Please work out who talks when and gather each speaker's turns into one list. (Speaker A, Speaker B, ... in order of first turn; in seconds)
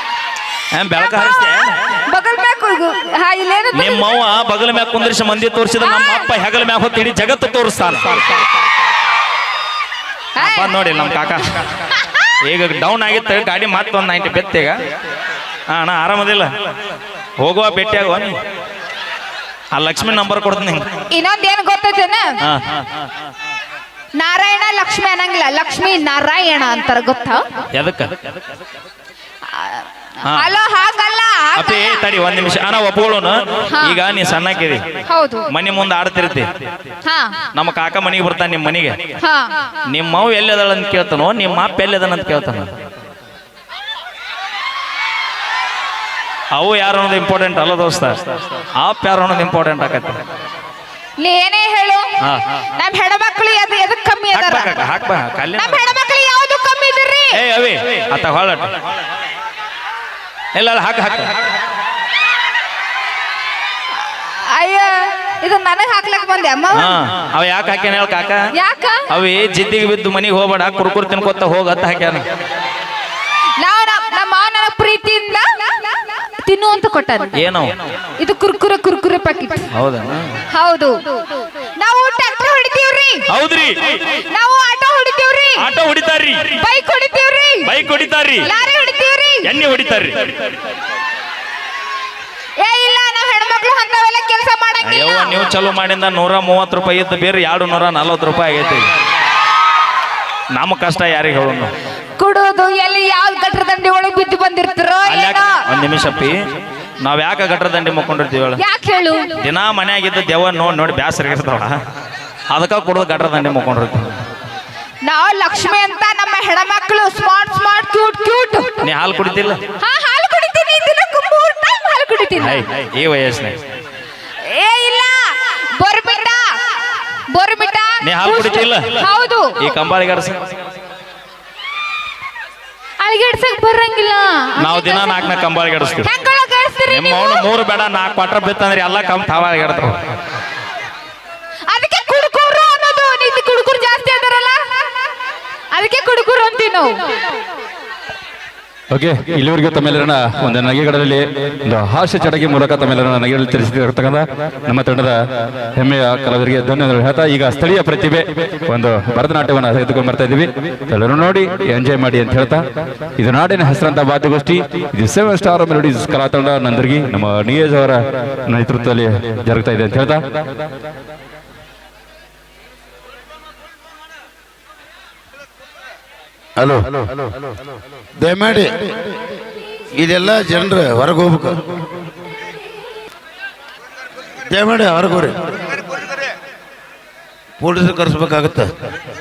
Speaker A: 0.7-2.0, 3.7-8.4, 10.4-11.6, 12.4-14.8, 15.7-16.5, 17.4-18.4, 19.7-20.9, 22.4-23.0, 27.8-28.1, 31.6-34.8, 35.5-36.5, 37.5-39.0, 39.9-42.7, 46.5-50.2, 52.2-52.6, 54.3-56.0, 57.3-58.8, 60.5-61.3, 66.7-68.4, 69.1-72.2, 77.4-77.8, 79.7-80.4, 83.3-84.1, 85.6-86.6, 87.7-88.5, 89.4-90.5, 94.8-98.9, 100.6-101.7, 105.1-106.4, 107.0-108.6, 109.4-111.8, 112.5-114.2, 118.8-119.6, 122.4-123.6, 128.0-129.1, 129.6-130.4, 134.6-136.1, 136.9-140.0
Speaker B: 2.1-4.0, 5.8-6.3, 10.4-10.8, 21.1-22.3, 24.2-27.4, 29.5-32.0, 33.7-34.0, 35.1-35.5, 37.0-37.4, 39.2-39.5, 51.2-52.1, 52.7-54.8, 55.6-57.4, 64.1-66.9, 68.5-69.0, 73.6-75.7, 76.5-77.5, 78.2-79.7, 80.5-81.2, 81.8-83.2, 84.3-85.7, 86.5-87.7, 88.4-89.5, 92.6-95.4, 102.2-105.6, 108.6-109.4, 115.0-118.8, 119.8-122.7, 124.5-126.4, 127.3-129.6, 133.0-135.3, 136.0-137.5, 141.7-144.6, 145.7-147.0
Speaker C: 148.9-155.2, 155.8-162.6, 163.2-170.2
Speaker D: 176.6-177.3, 178.2-178.9, 179.9-181.7, 184.5-185.6, 187.6-188.7